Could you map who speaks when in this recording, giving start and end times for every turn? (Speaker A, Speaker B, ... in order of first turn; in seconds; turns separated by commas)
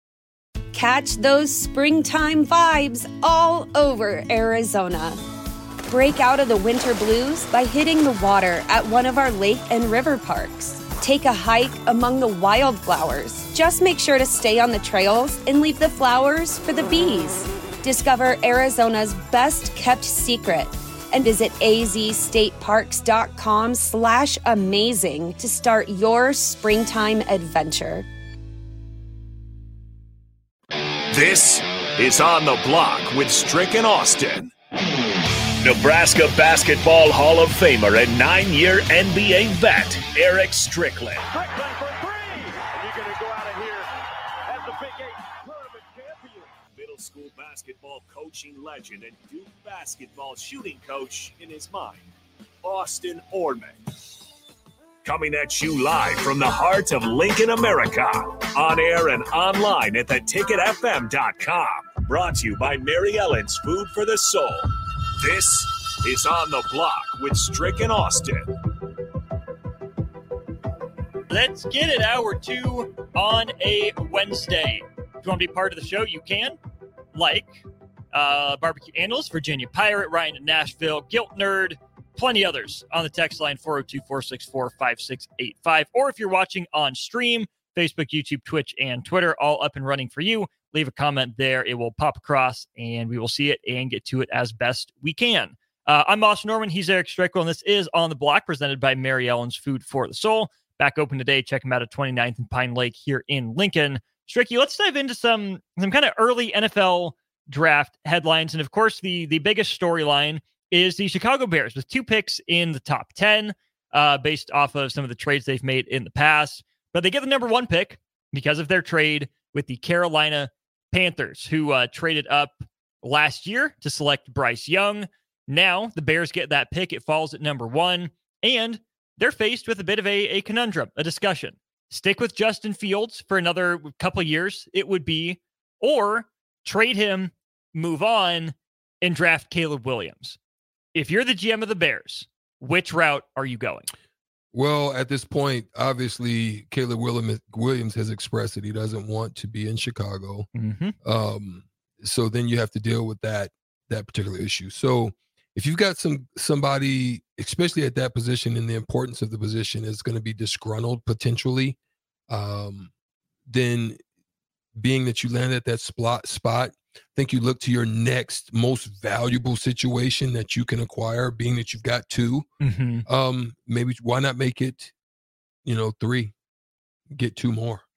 Speaker A: 0.7-5.2, Speaker A: 5.9-28.0, Speaker B: 31.1-34.5, Speaker B: 35.6-41.2, Speaker C: 41.2-46.6, Speaker B: 46.7-52.1, Speaker B: 52.6-53.8, Speaker B: 55.0-64.7, Speaker B: 65.2-68.4, Speaker D: 71.3-76.6, Speaker D: 77.1-77.6, Speaker D: 78.1-140.4, Speaker D: 140.9-143.9, Speaker E: 144.5-150.5, Speaker D: 150.5-150.9, Speaker E: 151.0-161.8, Speaker E: 162.3-162.9, Speaker E: 163.5-164.0, Speaker E: 164.7-172.5, Speaker D: 172.6-173.0, Speaker E: 173.1-174.9, Speaker E: 175.6-176.3, Speaker E: 177.1-177.8